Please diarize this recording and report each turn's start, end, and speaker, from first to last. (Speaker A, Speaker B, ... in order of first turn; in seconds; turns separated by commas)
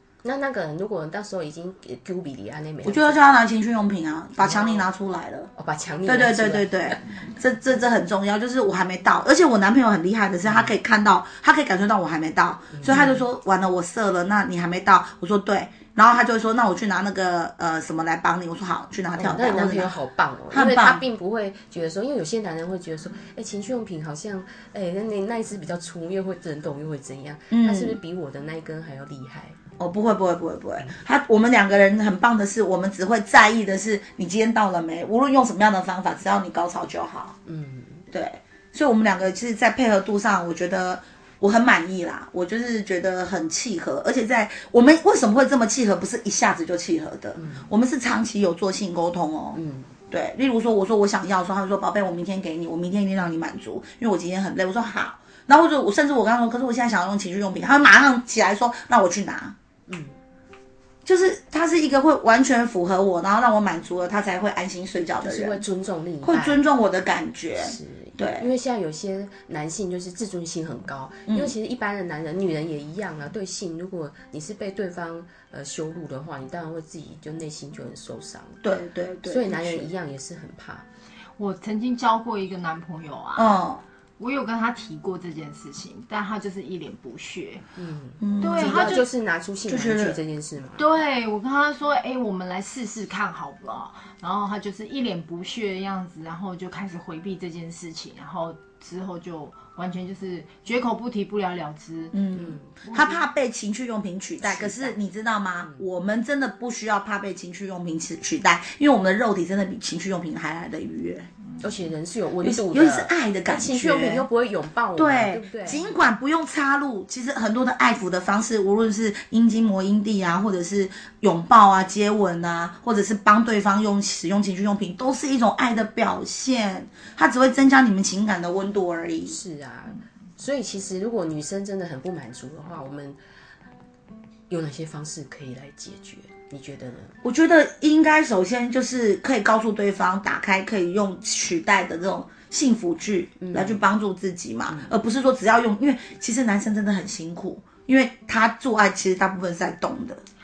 Speaker A: 0.2-3.2, Speaker B: 2.8-5.5, Speaker A: 4.4-4.9, Speaker A: 5.5-7.0, Speaker B: 6.0-19.9, Speaker A: 10.4-10.7, Speaker A: 12.8-13.2, Speaker A: 19.1-29.6, Speaker B: 20.5-21.0, Speaker B: 27.5-28.0, Speaker B: 29.8-37.4, Speaker A: 37.5-38.1, Speaker B: 38.1-49.6, Speaker A: 47.4-47.7, Speaker A: 49.5-49.9, Speaker B: 50.1-59.5, Speaker A: 59.9-60.2, Speaker B: 61.0-65.6, Speaker A: 65.2-66.6, Speaker B: 66.2-68.5, Speaker A: 67.6-78.6, Speaker B: 71.3-71.5, Speaker B: 78.6-79.9, Speaker A: 79.2-80.8, Speaker C: 81.4-83.6, Speaker B: 83.3-83.8, Speaker C: 84.2-87.6, Speaker A: 87.8-90.9, Speaker B: 88.2-89.0, Speaker C: 88.4-89.1, Speaker B: 89.7-90.2, Speaker C: 90.8-102.2, Speaker B: 102.1-111.3, Speaker A: 102.3-102.8, Speaker C: 102.8-103.2, Speaker A: 104.4-105.0, Speaker A: 105.6-105.9, Speaker A: 111.6-115.9, Speaker B: 112.4-114.2, Speaker B: 115.0-129.4, Speaker A: 129.2-133.2, Speaker A: 134.5-137.1, Speaker B: 137.2-150.2, Speaker A: 143.4-143.8